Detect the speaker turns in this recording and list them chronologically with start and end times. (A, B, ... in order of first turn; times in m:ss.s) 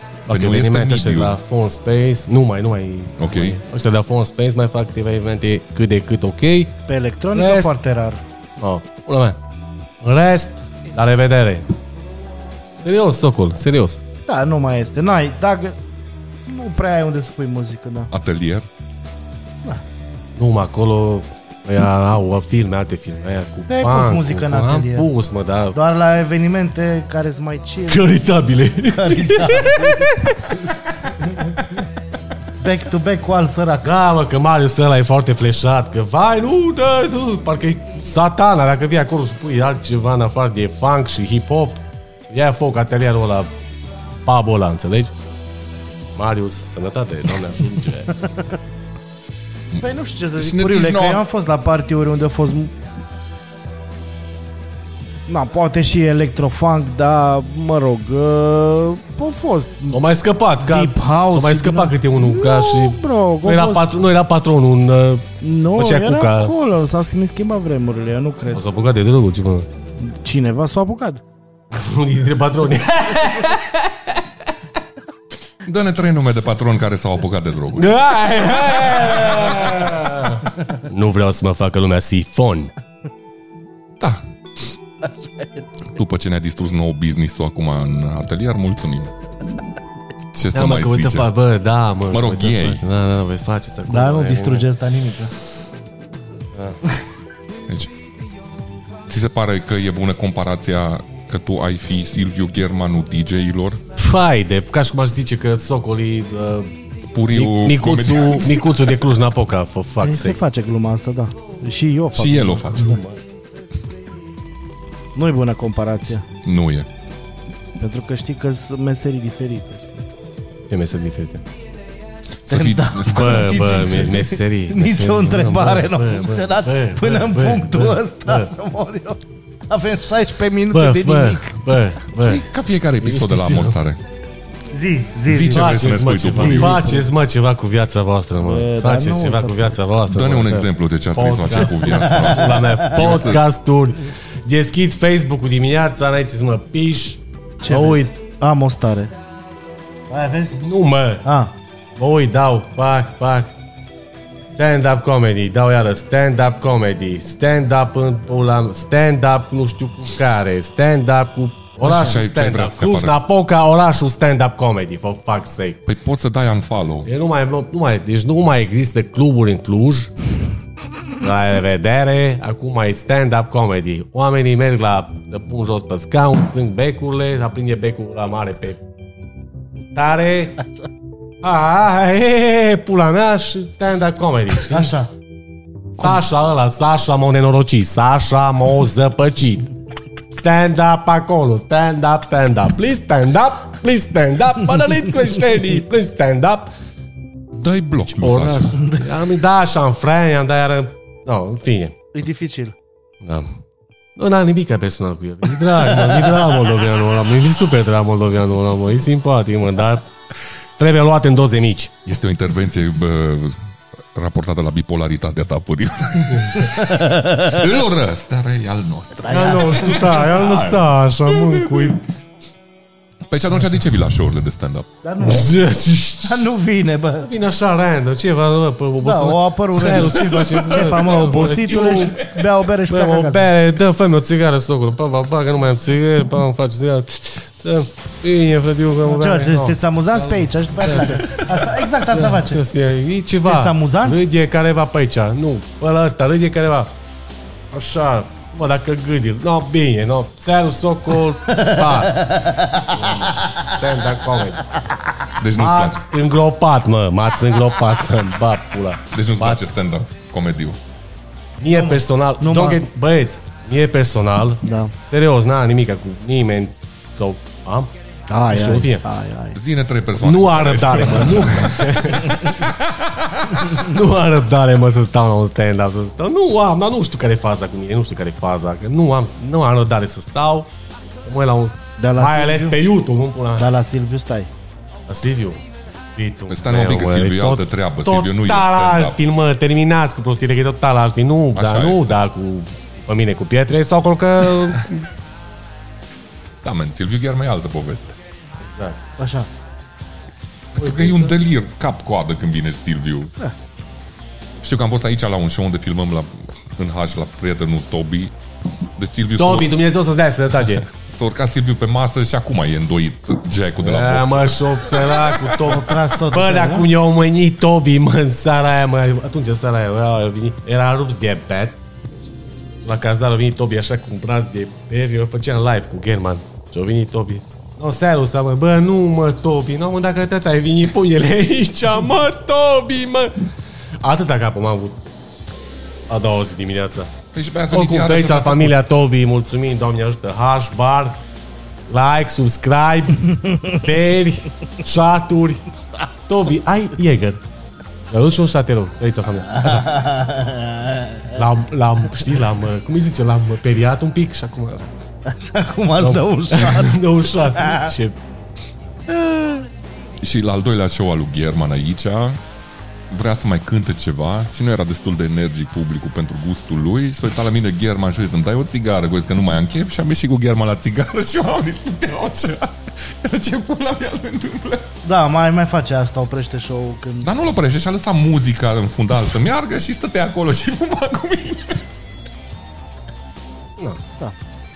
0:00.2-0:06.7 A
0:00.3-0:01.4 B
0:03.2-0:03.6 B
0:06.9-0:08.2 C
0:07.3-0:07.7 A
0:08.6-0:09.4 A
0:10.0-0:11.7 A
0:12.8-0:14.0 A
0:14.3-0:15.8 C
0:16.4-0:18.1 C
0:18.1-0:18.7 B
0:20.4-0:25.8 A
0:23.7-0:25.1 C
0:25.7-0:28.2 C
0:27.9-0:30.6 A
0:28.9-0:30.4 C
0:32.6-0:33.9 C
0:33.8-0:43.5 A
0:44.2-0:45.1 A
0:46.2-0:48.2 A
0:49.7-0:51.2 B
0:49.8-0:52.7 C
0:55.3-1:00.0 C
0:59.9-1:06.5 A
1:00.6-1:03.9 C
1:05.4-1:08.6 C
1:08.5-1:09.7 A
1:10.0-1:11.2 C
1:11.7-1:14.2 A
1:15.6-1:18.0 B
1:17.8-1:22.7 A
1:25.9-1:29.1 B
1:30.3-1:31.3 B
1:30.5-1:34.7 A
1:32.1-1:32.8 B
1:33.9-1:35.3 C
1:39.1-1:43.8 B
1:44.0-1:46.7 A
1:47.1-1:48.8 B
1:47.3-1:50.4 A
1:50.0-1:53.0 C
1:52.1-1:53.0 B
1:52.8-1:53.2 A
1:55.1-1:56.2 C
1:56.4-1:56.9 B
1:57.8-2:00.0 C
2:00.7-2:01.4 A
2:02.5-2:04.2 B
2:02.5-2:11.6 C
2:03.0-2:08.5 A
2:10.7-2:12.4 A
2:12.2-2:14.0 B
2:13.0-2:13.8 A
2:14.7-2:15.7 C
2:15.2-2:16.9 B
2:15.4-2:28.2 A
2:16.4-2:17.0 C
2:18.4-2:19.8 C
2:20.1-2:23.4 B
2:21.9-2:22.8 C
2:27.6-2:29.1 C
2:30.1-2:30.6 C
2:30.6-2:31.3 A
2:31.2-2:31.5 C
2:32.0-2:33.5 A
2:34.6-2:45.8 A
2:41.8-2:43.2 B
2:45.8-2:47.1 B
2:47.0-2:50.1 A
2:51.2-2:58.8 A
2:59.9-3:00.6 A
3:01.4-3:04.9 A
3:04.6-3:05.1 C
3:06.0-3:09.7 A
3:10.3-3:16.7 A
3:17.5-3:18.8 B
3:18.1-3:22.0 A
3:22.1-3:22.7 C
3:23.2-3:23.6 A
3:24.2-3:30.1 A
3:30.8-3:31.9 A
3:32.0-3:33.6 B
3:34.1-3:41.9 B
3:36.3-3:36.6 A
3:36.7-3:37.6 C
3:39.2-3:40.2 C
3:39.3-3:42.0 A
3:43.2-3:44.9 B
3:45.0-3:47.3 C
3:45.2-3:46.5 A
3:47.2-3:52.3 A
3:49.0-3:53.5 C
3:49.9-3:52.2 B
3:52.9-4:06.9 A
3:59.0-4:02.6 C
4:03.4-4:04.2 C
4:07.7-4:14.7 A
4:11.5-4:12.8 C
4:15.4-4:16.1 B
4:15.5-4:19.6 A
4:19.1-4:20.8 B
4:21.6-4:27.9 A
4:21.7-4:22.9 C
4:24.6-4:24.9 C
4:28.3-4:29.6 C
4:28.5-4:29.1 A
4:29.5-4:32.8 B
4:30.2-4:32.8 A
4:33.5-4:40.7 A
4:41.2-4:43.7 A
4:42.0-4:42.8 C
4:43.6-4:44.5 C
4:45.1-4:55.0 A
4:46.5-4:49.2 B
4:51.5-4:52.2 B
4:56.6-4:58.2 B
4:58.6-4:59.0 A
4:59.2-4:59.5 C
5:00.7-5:03.3 B
5:00.8-5:01.4 A
5:04.6-5:08.3 B
5:09.0-5:09.8 B
5:09.4-5:10.9 A
5:10.7-5:15.6 B
5:13.8-5:21.8 A
5:15.6-5:16.9 C
5:22.8-5:33.4 A
5:34.0-5:35.0 A
5:36.1-5:37.1 A
5:37.3-5:38.8 B
5:37.7-5:41.2 A
5:41.9-5:45.6 A
5:46.3-5:47.4 A
5:48.1-5:50.0 A
5:49.5-5:51.4 C
5:51.3-5:54.9 A
5:55.3-5:57.9 C
5:56.0-5:58.2 A
5:59.1-5:59.6 C
6:00.2-6:02.4 B
6:03.1-6:14.9 B
6:15.0-6:17.3 C
6:17.2-6:21.8 B